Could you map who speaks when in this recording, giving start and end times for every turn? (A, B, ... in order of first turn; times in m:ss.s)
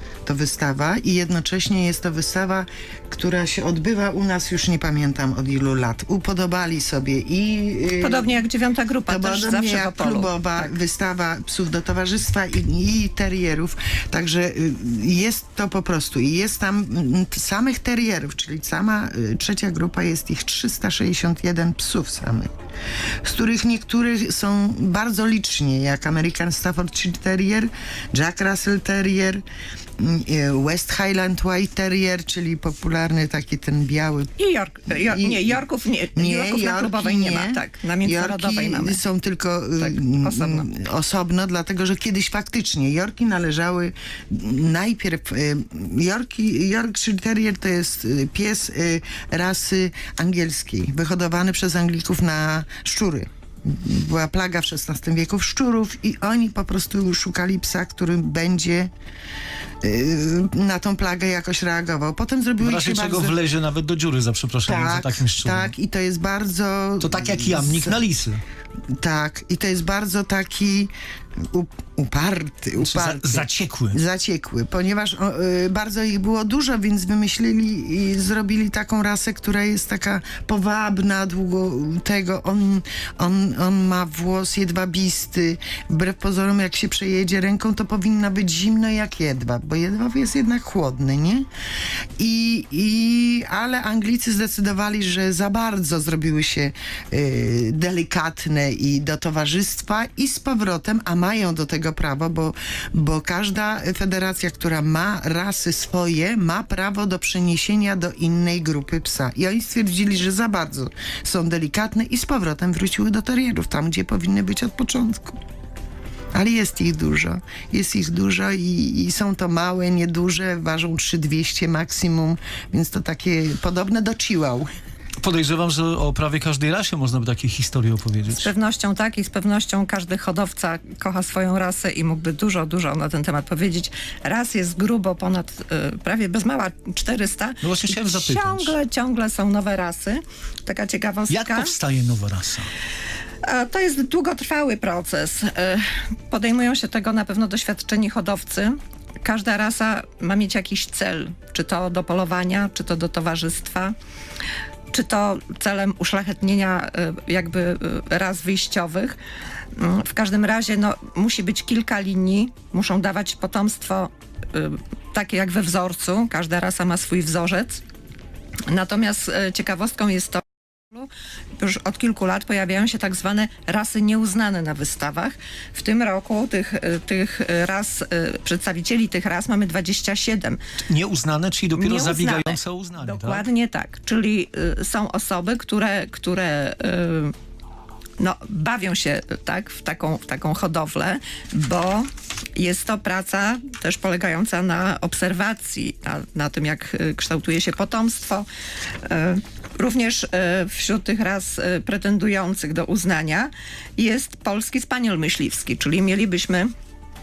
0:00.2-0:08.4 A
0:08.0-0:10.8 B
0:09.1-0:22.5 A
0:23.2-0:29.4 A
0:30.0-0:34.3 A
0:34.4-0:39.0 B
0:35.0-0:35.6 A
0:36.2-0:58.9 A
0:39.8-0:40.7 B
0:59.8-1:03.4 A
1:02.6-1:05.7 C
1:04.6-1:08.0 A
1:07.0-1:08.4 C
1:08.9-1:31.4 A
1:12.8-1:14.0 C
1:32.2-1:55.4 A
1:56.3-2:04.7 A
2:05.2-2:08.5 C
2:08.4-2:21.7 B
2:17.6-2:18.7 C
2:21.3-2:22.7 C
2:23.4-2:33.9 B
2:34.9-2:39.2 B
2:39.7-2:47.8 B
2:48.7-3:00.6 B
3:00.9-3:03.4 C
3:01.8-3:07.3 B
3:08.2-3:18.4 B
3:19.0-3:26.7 B